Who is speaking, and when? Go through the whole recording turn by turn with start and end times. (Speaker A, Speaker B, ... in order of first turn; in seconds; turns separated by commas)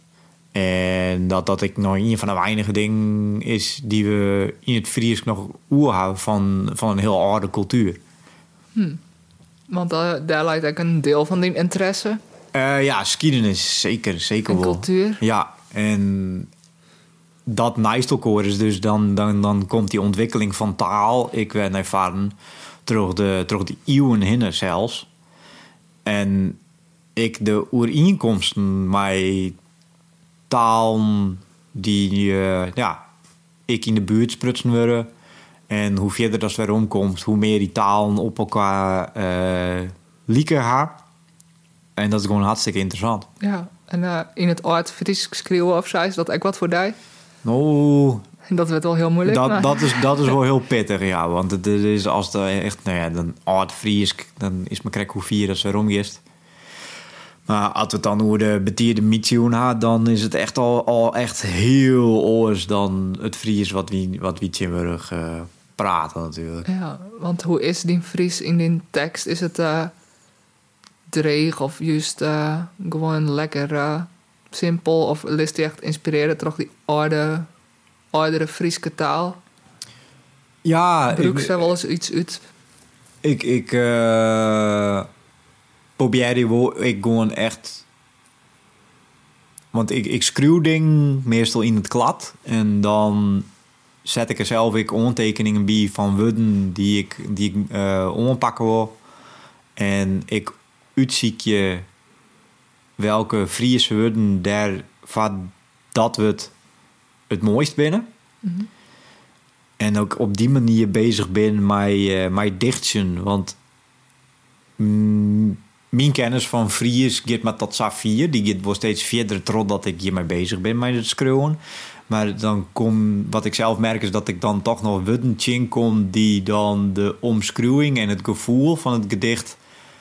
Speaker A: 0.5-8.0, Speaker B: 8.7-9.0, Speaker B: 9.7-12.2, Speaker A: 12.5-16.5, Speaker B: 14.5-15.2, Speaker A: 17.4-25.1, Speaker A: 26.0-26.6, Speaker A: 27.1-29.6, Speaker A: 30.5-33.0, Speaker A: 33.7-35.1, Speaker A: 35.7-41.0, Speaker A: 42.0-43.3, Speaker B: 43.4-47.0, Speaker A: 47.4-48.2, Speaker B: 48.5-50.0, Speaker A: 49.2-56.2, Speaker A: 57.5-66.7, Speaker B: 66.7-69.9, Speaker B: 71.1-77.5, Speaker B: 78.1-79.4, Speaker A: 80.6-81.6, Speaker B: 81.1-82.4, Speaker A: 83.2-85.1, Speaker A: 86.0-87.8, Speaker A: 89.7-93.5, Speaker A: 94.0-99.0, Speaker A: 99.8-101.8, Speaker A: 103.0-106.5, Speaker A: 107.3-108.1, Speaker A: 109.8-113.6, Speaker A: 114.8-129.6